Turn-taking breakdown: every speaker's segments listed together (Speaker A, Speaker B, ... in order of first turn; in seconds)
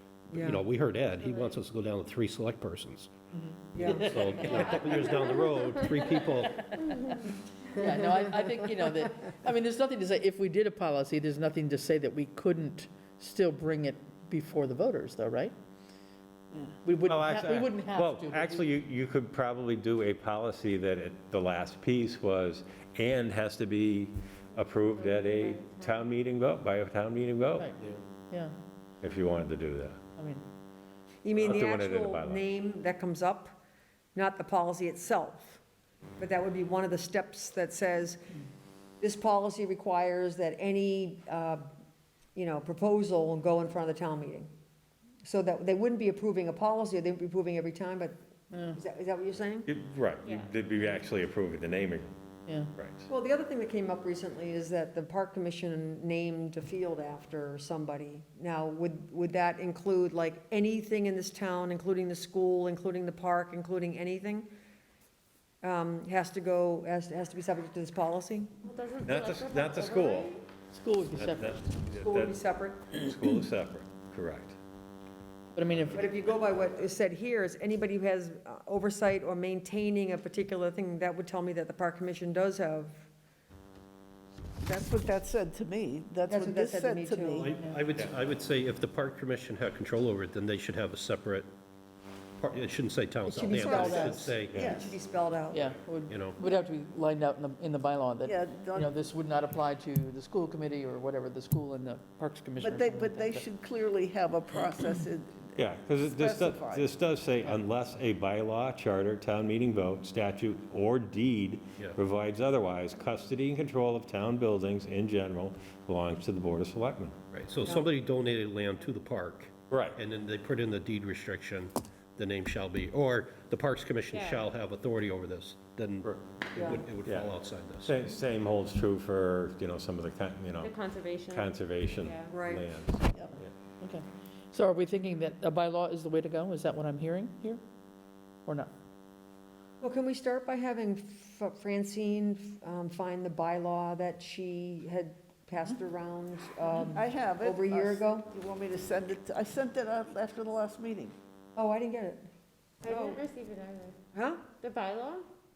Speaker A: 0.3-3.1, 3.8-6.5, 87.4-91.5, 92.4-94.6, 96.1-96.4, 117.3-127.9
Speaker B: 0.3-0.7, 3.7-4.6, 7.8-8.2, 31.2-33.6, 34.1-35.6, 36.2-38.2, 39.0-41.7, 42.4-44.5, 45.2-48.2, 48.7-49.7, 53.1-64.5, 65.6-68.6, 72.0-72.9, 75.9-83.1, 86.3-87.5, 93.2-95.7, 126.6-126.8, 132.3-132.7, 139.8-148.3, 151.6-152.2, 152.9-153.2, 154.1-154.5
Speaker C: 1.2-1.6, 4.7-6.0, 6.9-7.2, 24.9-26.1, 50.2-50.5, 68.6-70.4, 124.1-124.5, 130.6-132.3, 152.8-154.0, 154.5-155.3
Speaker D: 3.3-5.1, 5.9-15.6, 16.6-18.7, 28.3-28.6, 30.2-30.5, 48.5-48.8, 52.5-52.7, 70.7-71.6, 75.5-76.1, 87.5-87.8, 93.7-94.0, 95.5-103.5, 133.8-137.6
Speaker E: 17.0-27.7, 29.0-30.0, 31.4-32.5, 49.7-52.1, 52.8-53.1, 69.0-70.3, 71.2-74.5, 94.5-94.8, 105.6-117.2, 119.7-120.0, 127.0-130.7, 131.3-133.5
Speaker F: 84.6-87.5, 93.5-95.0, 98.2-98.9, 102.6-106.9, 146.9-151.2